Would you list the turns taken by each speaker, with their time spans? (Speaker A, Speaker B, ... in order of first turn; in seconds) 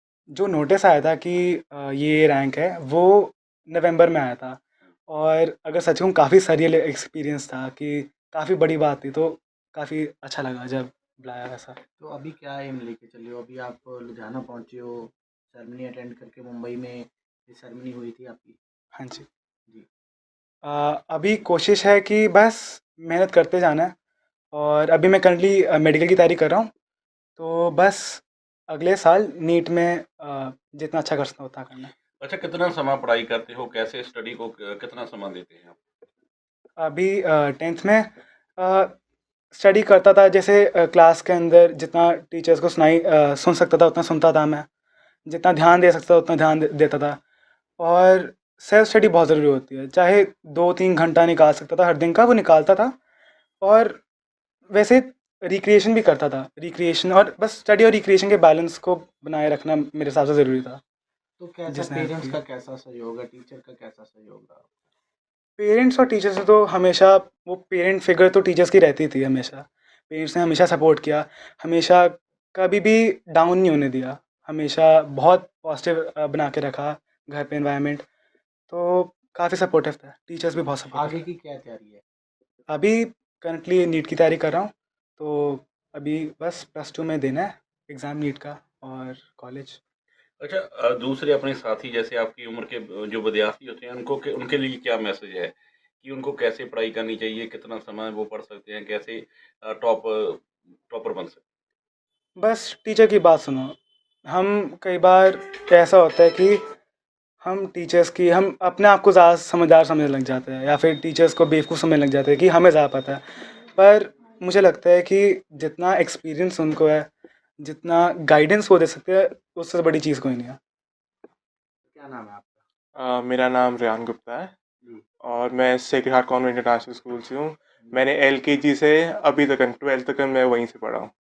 Speaker A: 0.3-11.8, 19.0-19.2, 20.6-23.9, 24.5-26.7, 27.4-31.9, 36.8-38.9, 39.5-44.6, 45.3-47.2, 47.8-52.9, 53.6-54.0, 54.7-60.8, 61.7-62.4, 65.6-78.0, 78.7-81.2, 82.7-89.8, 102.4-103.8, 104.3-106.6, 107.4-113.2, 113.7-117.1, 117.6-120.6
Speaker B: 12.0-18.6, 61.4-64.7, 80.9-82.0, 121.9-122.6
Speaker C: 32.2-35.8, 90.4-101.4
Speaker D: 123.0-124.5, 125.2-131.1